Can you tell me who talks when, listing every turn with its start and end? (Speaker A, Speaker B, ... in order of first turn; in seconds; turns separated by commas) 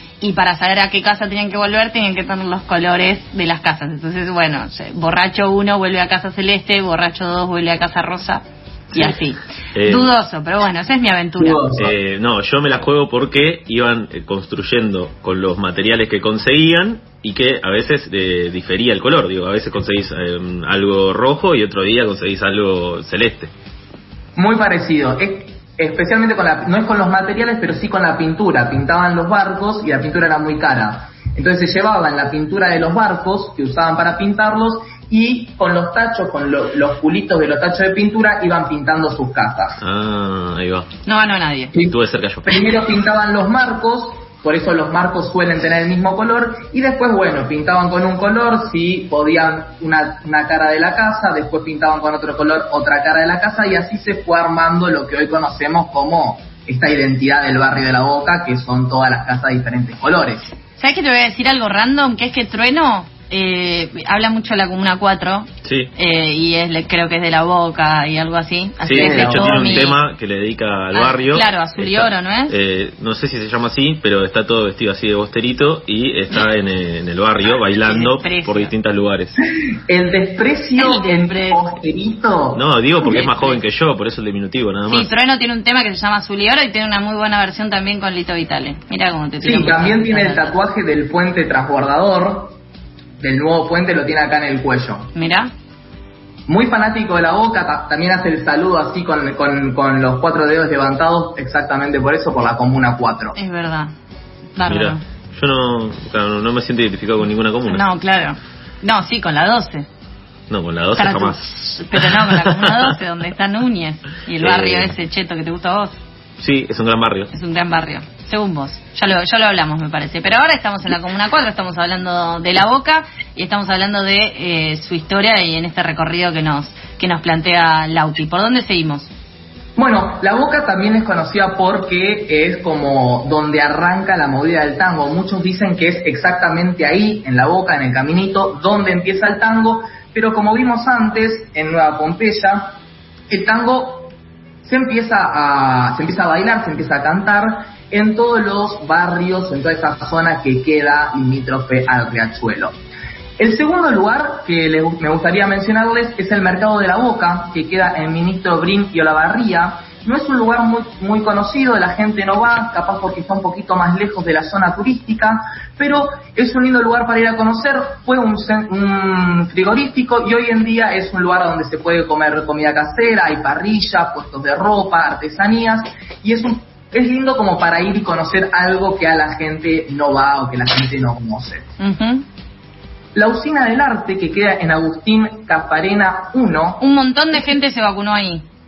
Speaker A: 0.2-11.6, Speaker B: 8.9-9.2, Speaker B: 9.7-10.1, Speaker C: 11.4-11.9, Speaker B: 11.8-23.5, Speaker C: 24.4-39.8, Speaker B: 39.8-40.9, Speaker A: 41.1-41.8, Speaker B: 41.9-42.6, Speaker C: 42.5-60.5, Speaker A: 60.8-70.0, Speaker B: 65.7-65.9, Speaker B: 68.8-79.4, Speaker C: 68.9-69.9, Speaker A: 70.9-72.5, Speaker A: 77.8-78.7, Speaker C: 79.9-82.6, Speaker A: 80.8-81.6, Speaker B: 82.5-85.1, Speaker A: 83.0-83.6, Speaker A: 84.9-90.5, Speaker C: 89.4-92.6, Speaker C: 93.2-95.1, Speaker A: 95.2-95.5, Speaker C: 96.5-103.4, Speaker A: 103.3-103.9, Speaker A: 104.6-105.0, Speaker B: 104.7-107.9, Speaker A: 107.7-109.9, Speaker B: 110.5-112.9, Speaker A: 111.0-116.0, Speaker B: 114.4-114.9, Speaker B: 116.4-117.3, Speaker A: 117.3-129.1, Speaker C: 129.8-142.8, Speaker C: 143.3-144.1, Speaker C: 144.6-152.7, Speaker C: 153.4-181.6, Speaker A: 181.8-182.2, Speaker C: 183.2-186.8, Speaker A: 186.8-188.4